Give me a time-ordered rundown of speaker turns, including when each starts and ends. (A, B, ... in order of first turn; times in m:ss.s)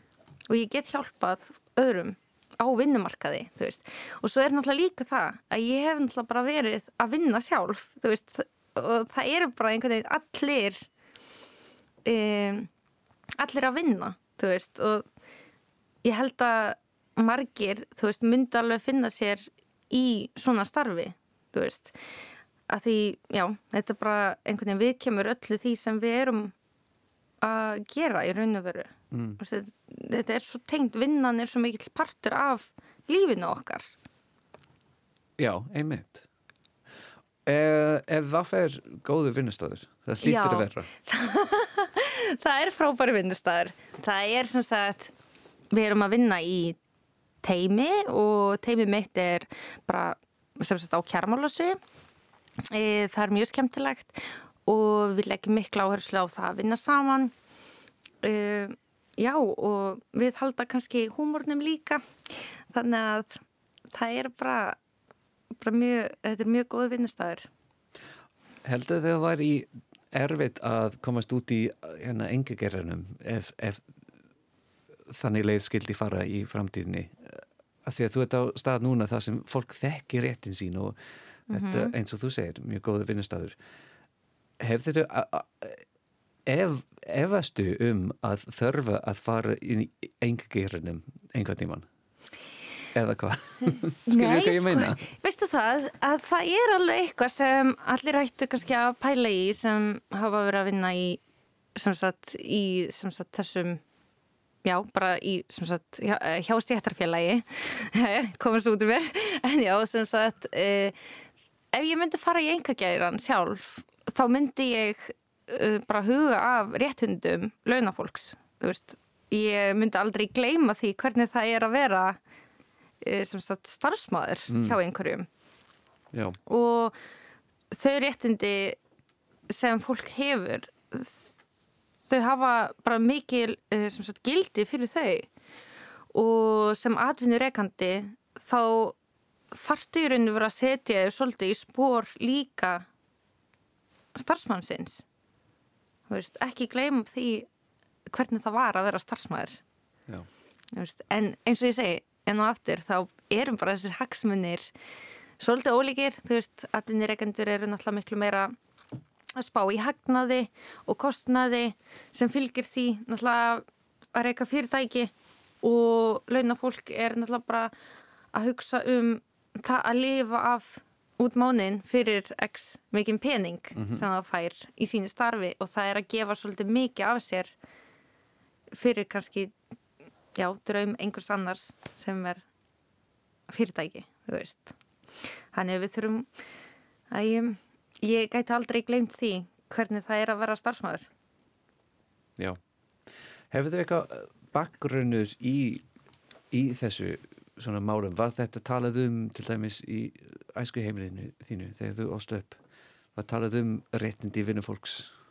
0:00.5-0:10.9 A
0:12.0-0:12.7 A
0:13.4-0:15.0 A
0:16.0-0:22.0 A
0:22.7-0:26.5 A
0:27.4-0:33.9 A
0:29.1-0:29.4 B
0:35.4-0:36.2 B
0:37.4-0:40.9 B
0:40.2-0:45.1 A
0:45.7-0:46.8 A
0:47.4-0:51.8 A
0:52.7-0:57.3 A
0:58.2-1:03.4 A
1:03.9-1:04.8 A
1:05.6-1:07.5 A
1:08.6-1:13.8 B
1:15.1-1:21.0 B
1:21.5-1:21.9 A
1:21.5-1:23.6 B
1:24.6-1:25.8 B
1:26.5-1:31.9 B
1:32.9-1:35.0 B
1:34.1-1:41.2 A
1:41.8-1:43.8 A
1:44.6-1:51.0 A
1:51.7-2:02.2 A
2:03.0-2:05.3 A
2:04.5-2:04.8 B
2:06.1-2:06.4 B
2:06.5-2:07.0 A
2:07.7-2:08.8 A
2:09.5-2:11.4 A
2:12.1-2:15.3 A
2:16.1-2:19.0 A
2:19.5-2:22.9 A
2:24.2-2:25.0 A
2:26.1-2:27.5 A
2:28.1-2:29.6 A
2:30.7-2:34.7 A
2:35.4-2:38.6 A
2:39.4-2:45.1 A
2:45.6-2:47.7 A
2:48.3-2:57.5 A
2:53.8-2:54.0 B
2:58.7-2:59.5 A
3:00.4-3:02.4 A
3:03.5-3:04.8 A
3:05.5-3:06.3 A
3:07.1-3:11.1 A
3:13.5-3:15.8 B
3:16.5-3:22.6 B
3:23.2-3:25.1 B